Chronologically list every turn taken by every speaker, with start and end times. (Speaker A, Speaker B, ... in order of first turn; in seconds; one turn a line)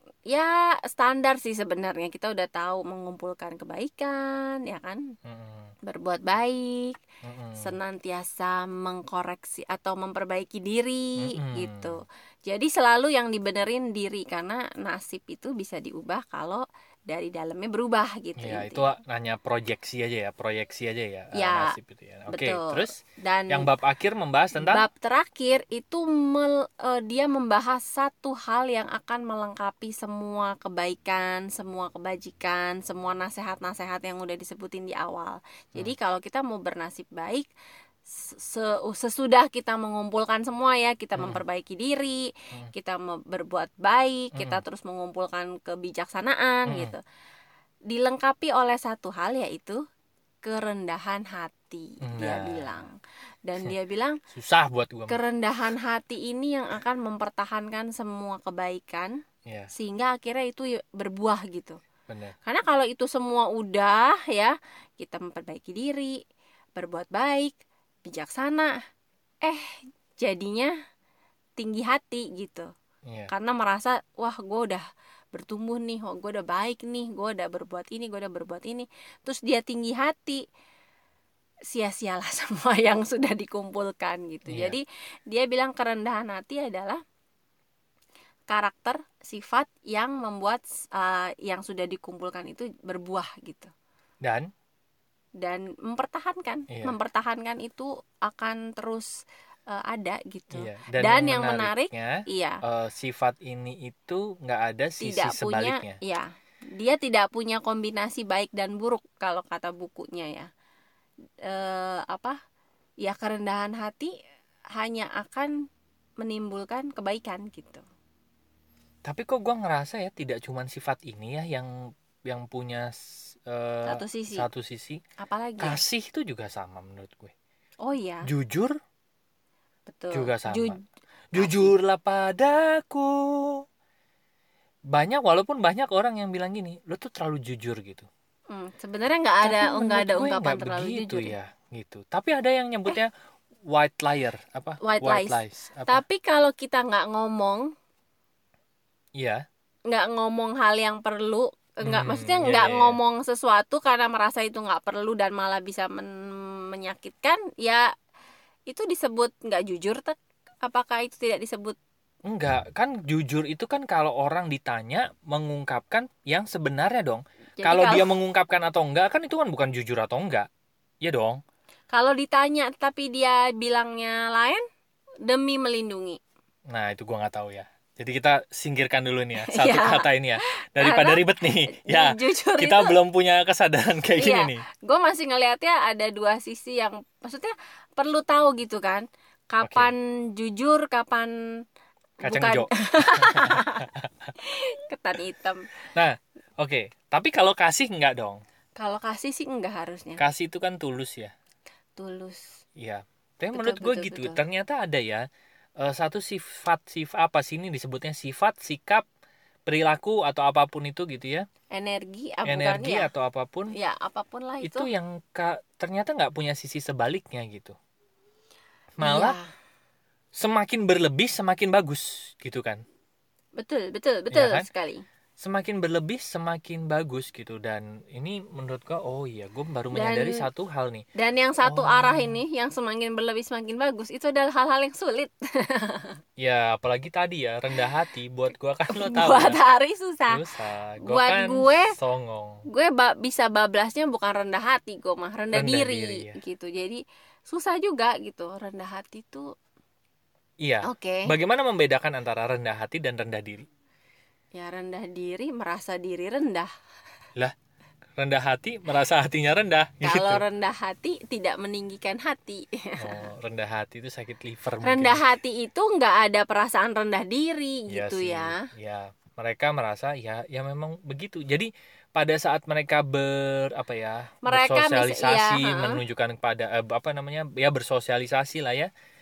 Speaker A: 0.3-5.0
Speaker B: 5.2-5.7
Speaker A: 5.8-7.0
Speaker B: 7.2-7.8
Speaker A: 7.6-18.9
Speaker B: 11.2-12.0
Speaker B: 18.4-24.8
Speaker A: 21.3-21.7
Speaker A: 22.3-23.7
Speaker A: 24.6-37.5
Speaker A: 38.1-47.0
Speaker B: 41.1-41.4
Speaker B: 44.3-44.6
Speaker B: 46.6-46.9
Speaker A: 47.9-49.8
Speaker A: 50.4-52.9
Speaker B: 52.0-52.8
Speaker A: 53.5-54.2
Speaker B: 54.3-55.2
Speaker A: 55.1-59.1
Speaker A: 59.7-61.8
Speaker B: 62.1-62.4
Speaker A: 62.4-66.2
Speaker A: 66.8-68.7
Speaker A: 70.2-70.7
Speaker A: 71.6-72.7
Speaker B: 73.1-73.3
Speaker A: 73.3-80.4
Speaker A: 81.7-87.0
Speaker B: 84.5-84.8
Speaker A: 88.5-93.7
Speaker B: 94.2-94.5
Speaker A: 95.4-99.1
Speaker B: 96.7-97.0
Speaker A: 99.7-102.6
Speaker B: 100.5-106.0
Speaker A: 105.0-110.5
Speaker A: 111.5-112.4
Speaker A: 113.0-114.1
Speaker A: 114.8-115.5
Speaker A: 116.2-117.8
Speaker B: 119.0-121.7
Speaker B: 122.3-125.0
Speaker A: 123.8-124.5
Speaker A: 125.2-125.8
Speaker B: 125.6-127.3
Speaker A: 127.8-128.2
Speaker B: 128.3-128.7
Speaker A: 129.9-130.8
Speaker B: 130.1-130.8
Speaker B: 131.3-133.6
Speaker A: 131.3-131.7
Speaker B: 134.9-138.1
Speaker A: 138.5-141.3
Speaker B: 139.4-143.1
Speaker B: 143.7-146.0
Speaker A: 144.8-147.7
Speaker B: 149.2-149.4
Speaker A: 149.9-157.8
Speaker B: 151.8-153.0
Speaker A: 158.7-161.8
Speaker B: 162.3-170.5
Speaker A: 167.6-168.1
Speaker B: 171.0-171.4
Speaker A: 171.9-174.6
Speaker A: 175.2-176.2
Speaker B: 176.7-184.6
Speaker A: 179.4-182.9
Speaker A: 184.2-191.3
Speaker B: 189.6-189.9
Speaker A: 192.2-193.8
Speaker B: 192.2-194.3
Speaker A: 194.4-195.7
Speaker B: 195.9-198.4
Speaker A: 198.8-200.2
Speaker B: 200.2-201.3
Speaker A: 202.0-202.6
Speaker B: 202.8-205.2
Speaker A: 203.5-204.4
Speaker B: 205.8-209.0
Speaker B: 209.7-211.5
Speaker A: 211.7-213.1
Speaker B: 212.5-213.7
Speaker A: 213.7-214.9
Speaker B: 214.6-217.8
Speaker B: 219.0-219.4
Speaker A: 219.0-219.5
Speaker B: 220.4-222.8
Speaker A: 223.6-225.0
Speaker B: 224.3-224.7
Speaker B: 225.4-231.0
Speaker A: 229.9-230.5
Speaker A: 231.2-236.1
Speaker B: 231.6-232.4
Speaker B: 236.4-239.6
Speaker A: 238.9-240.4
Speaker B: 240.3-242.6
Speaker A: 241.1-241.9
Speaker A: 242.7-249.5
Speaker B: 245.5-246.4
Speaker B: 250.6-253.6
Speaker A: 250.8-251.3
Speaker A: 254.5-256.7
Speaker B: 258.2-260.4
Speaker A: 260.0-263.2
Speaker B: 263.0-265.2
Speaker A: 264.8-268.7
Speaker B: 267.9-278.9
Speaker A: 274.4-276.0